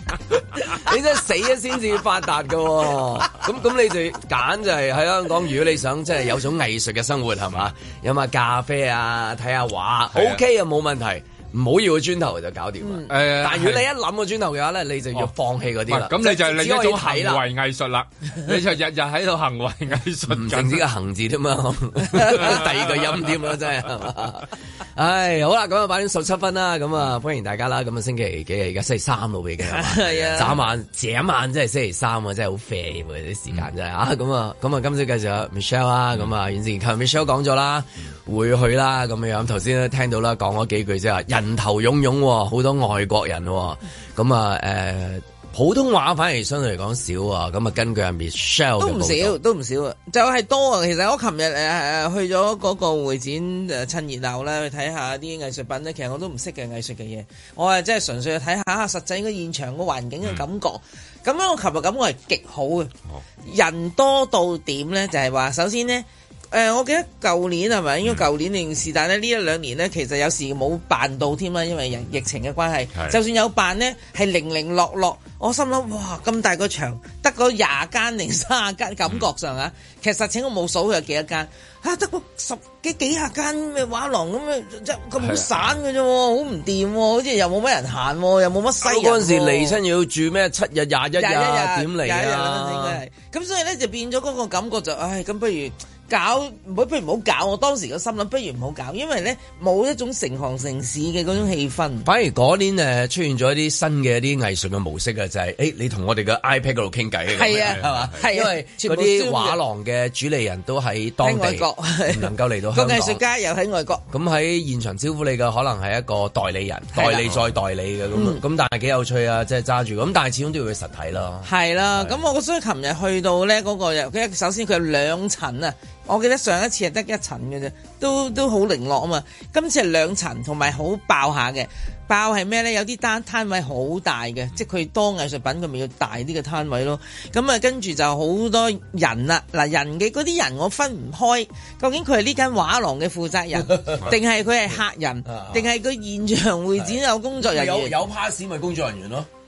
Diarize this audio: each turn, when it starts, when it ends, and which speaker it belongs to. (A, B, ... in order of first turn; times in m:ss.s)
0:00.6-0:17.4 A
0:10.1-0:10.4 B
0:13.0-0:13.8 B
0:15.9-0:20.8 B
0:20.3-0:49.4 A
0:29.6-0:30.5 C
0:48.8-1:02.9 C
1:03.4-1:29.8 C
1:25.2-1:25.5 B
1:28.8-1:33.0 A
1:31.2-1:42.1 C
1:42.0-1:53.2 A
1:47.3-1:49.6 C
1:47.6-1:48.0 B
1:51.2-1:54.0 C
1:54.1-2:02.1 A
1:56.9-1:57.3 C
1:58.1-1:58.4 C
2:01.4-2:27.9 C
2:23.7-2:24.1 A
2:25.2-2:25.7 A
2:27.4-2:29.3 A